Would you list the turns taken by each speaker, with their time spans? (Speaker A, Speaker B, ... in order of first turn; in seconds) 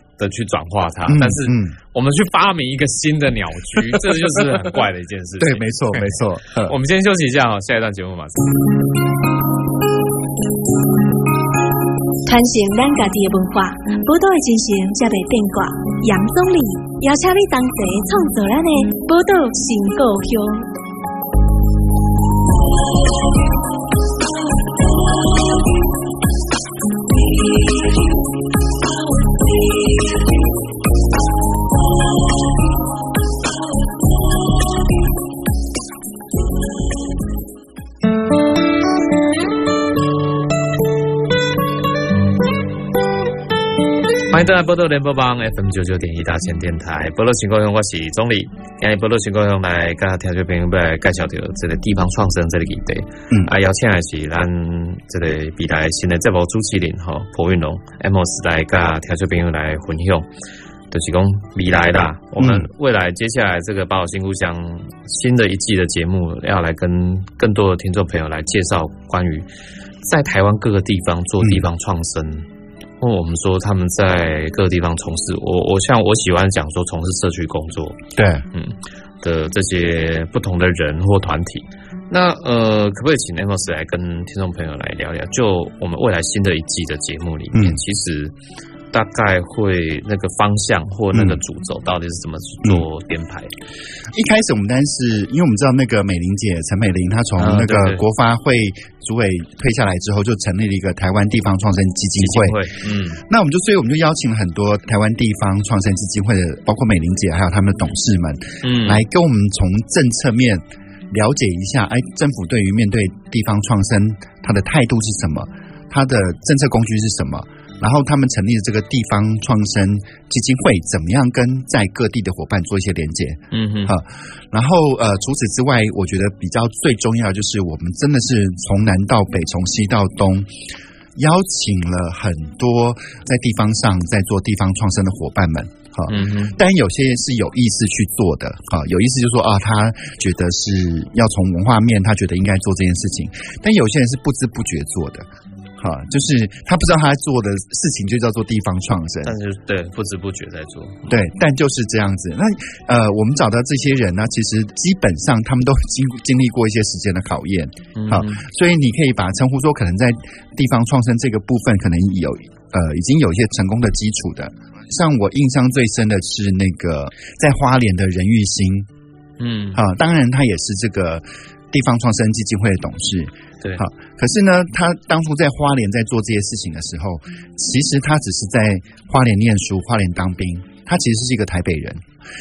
Speaker A: 0.2-6.1, 6.7-8.5, 44.3-60.2, 60.9-69.5, 70.0-72.5, 73.0-78.0, 78.5-88.3, 88.9-93.5, 97.4-98.0, 102.2-103.2, 108.6-109.0, 123.5-123.9, 136.1-136.6, 149.2-151.2, 157.9-158.4, 169.4-169.8
Speaker B: 1.1-1.8, 5.4-6.7, 62.4-62.7, 71.4-71.7, 78.2-78.5, 87.5-87.8, 91.1-91.4, 94.1-102.6, 103.3-130.5, 131.2-145.3, 145.8-149.3, 151.1-168.9, 169.7-182.0
Speaker C: 12.2-20.7